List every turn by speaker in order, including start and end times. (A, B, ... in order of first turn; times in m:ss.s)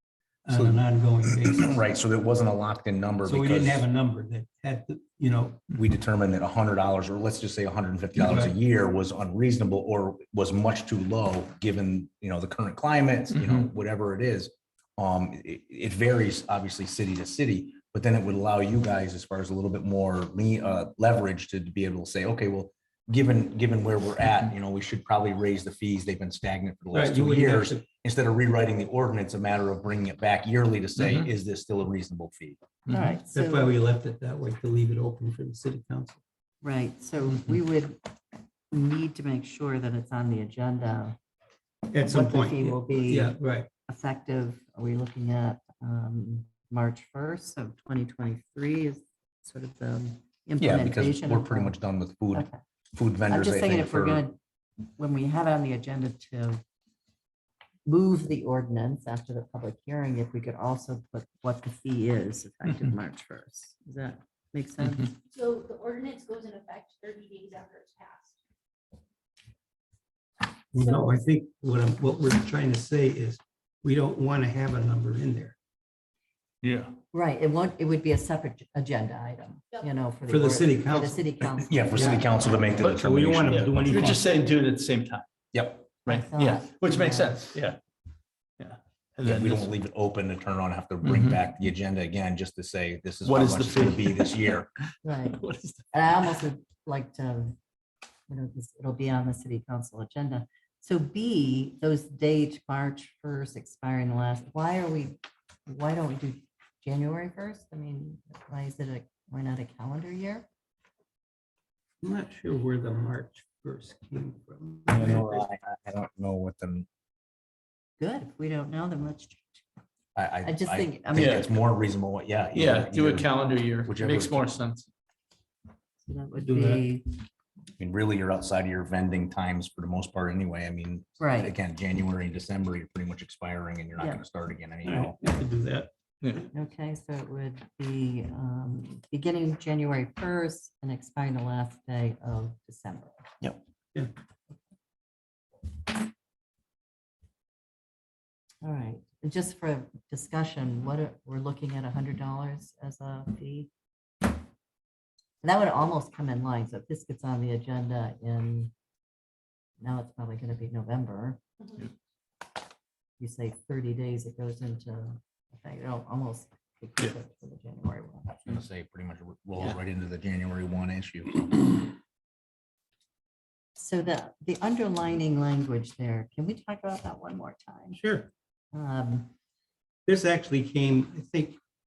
0:00.4-0:01.8 A
0:00.5-0:00.8 B
0:01.4-0:03.8 B
0:03.2-0:05.7 A
0:05.7-0:32.6 B
0:08.2-0:08.6 A
0:26.9-0:27.8 A
0:31.0-0:31.2 C
0:32.9-0:33.2 C
0:32.9-0:33.7 D
0:33.3-0:36.2 A
0:36.6-0:38.0 D
0:38.7-0:41.2 D
0:41.9-0:43.7 A
0:42.0-0:43.4 D
0:43.9-0:51.7 D
0:50.6-0:54.2 B
0:53.3-0:54.4 D
0:55.0-0:56.6 D
0:57.8-1:05.1 D
1:04.8-1:05.1 C
1:05.3-1:08.4 E
1:10.7-1:15.6 A
1:16.6-1:16.9 C
1:17.1-1:22.7 D
1:20.3-1:24.3 A
1:21.6-1:24.0 B
1:22.8-1:25.2 C
1:25.5-1:25.8 B
1:26.0-1:27.8 C
1:26.0-1:27.6 D
1:28.6-1:29.8 C
1:29.2-1:34.7 B
1:31.0-1:31.4 C
1:33.2-1:34.6 C
1:35.0-1:35.4 D
1:35.3-1:36.3 C
1:35.9-1:37.6 D
1:38.3-1:50.4 D
1:52.0-1:55.4 A
1:54.9-1:56.9 B
1:58.0-1:59.6 D
2:00.1-2:03.3 B
2:00.4-2:01.4 D
2:01.1-2:01.5 C
2:02.5-2:04.9 C
2:03.8-2:04.4 B
2:06.0-2:07.2 D
2:06.4-2:06.8 A
2:07.8-2:15.2 B
2:11.2-2:11.5 D
2:14.8-2:15.9 A
2:16.2-2:16.5 C
2:16.5-2:23.3 D
2:28.6-2:33.7 D
2:35.4-2:38.7 D
2:39.8-2:41.4 D
2:43.2-2:48.5 D
2:48.4-2:51.6 B
2:53.8-2:58.0 D
2:58.0-2:58.3 A
2:58.7-2:59.3 D
3:00.0-3:01.6 A